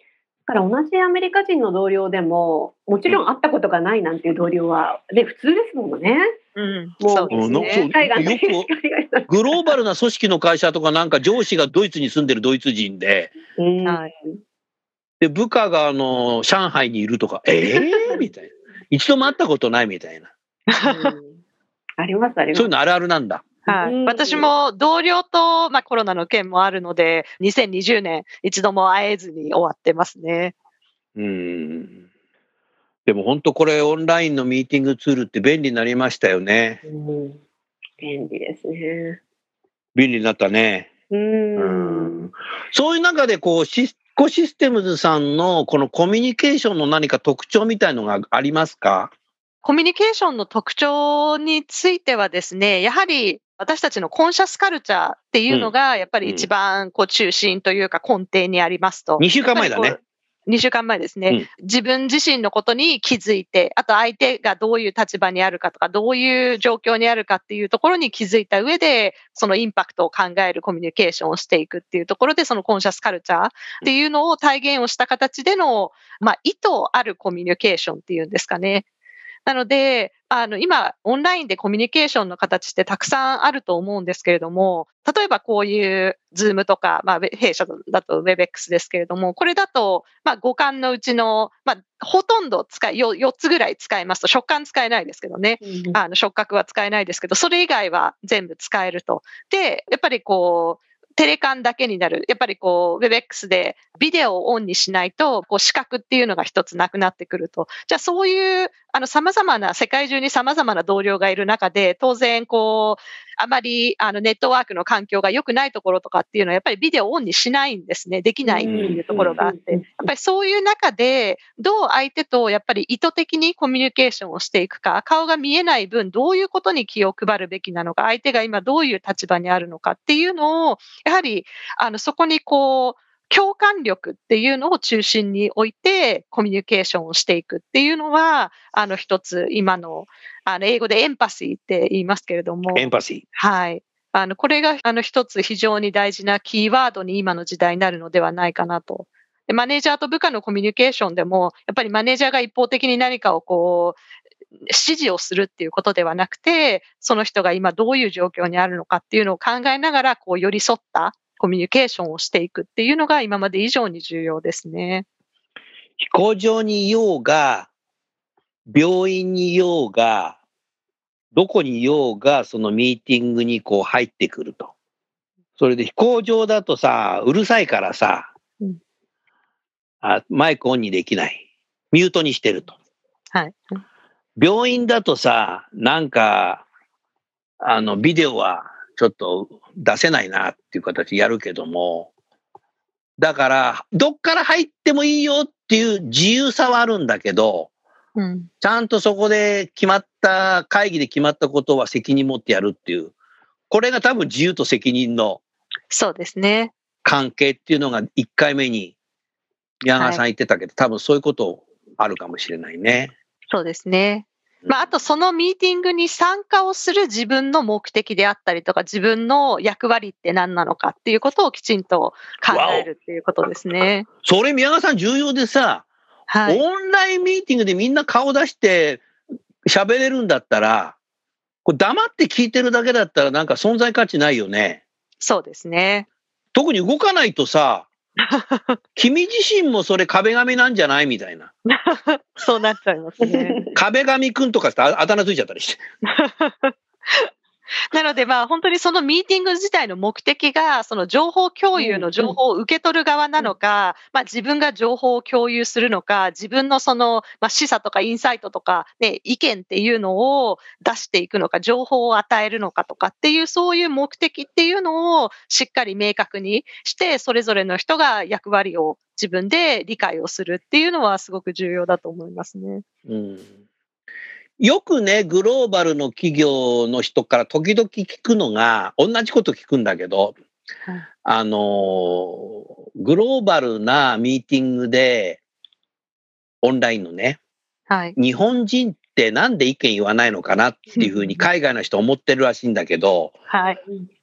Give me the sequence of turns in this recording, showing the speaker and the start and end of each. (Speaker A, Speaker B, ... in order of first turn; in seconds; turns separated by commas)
Speaker A: 0.5-6.3, Speaker B: 6.6-7.9, Speaker A: 7.0-9.7, Speaker C: 7.3-8.7, Speaker C: 9.3-13.4, Speaker A: 13.6-14.0, Speaker C: 15.2-20.3, Speaker A: 17.7-18.3, Speaker B: 20.7-21.2, Speaker A: 20.8-21.4, Speaker A: 22.0-22.7, Speaker C: 22.5-23.4, Speaker A: 23.7-24.5, Speaker B: 23.7-30.5, Speaker C: 31.2-32.0, Speaker C: 33.1-36.8, Speaker A: 36.8-37.4, Speaker A: 38.0-39.2, Speaker C: 40.0-40.9, Speaker A: 41.1-42.3, Speaker C: 41.6-49.1, Speaker B: 49.6-78.8, Speaker C: 55.5-56.5, Speaker C: 59.2-60.0, Speaker B: 79.5-154.0, Speaker A: 95.6-96.0, Speaker A: 118.5-120.1, Speaker C: 118.7-119.4, Speaker C: 142.8-143.2, Speaker B: 154.7-165.1, Speaker C: 166.0-167.7, Speaker C: 168.7-170.4, Speaker C: 171.3-174.7, Speaker C: 175.6-178.3, Speaker C: 180.0-182.8, Speaker B: 183.3-183.8, Speaker C: 184.4-186.6, Speaker C: 187.6-192.1, Speaker C: 193.2-197.7, Speaker B: 198.2-198.5, Speaker C: 198.6-203.1, Speaker C: 203.7-205.4, Speaker B: 205.9-206.7, Speaker C: 207.0-208.9, Speaker C: 209.8-213.1, Speaker B: 209.9-210.2, Speaker B: 213.5-224.1, Speaker C: 214.6-214.9, Speaker C: 222.5-222.9, Speaker C: 224.2-225.9, Speaker B: 226.3-226.6, Speaker C: 226.5-229.1, Speaker C: 229.7-231.0, Speaker C: 231.7-234.8, Speaker B: 235.2-236.1, Speaker C: 236.5-237.9, Speaker B: 238.2-238.8, Speaker C: 239.0-241.5, Speaker B: 241.7-243.6, Speaker A: 243.2-243.7, Speaker C: 243.7-245.8, Speaker B: 246.1-247.3, Speaker B: 247.9-272.8, Speaker A: 251.8-252.4, Speaker C: 273.1-273.5, Speaker C: 274.6-280.4, Speaker C: 281.2-285.4, Speaker C: 286.6-287.4, Speaker B: 287.9-288.2, Speaker C: 288.2-293.4, Speaker B: 291.0-291.4, Speaker B: 293.5-293.8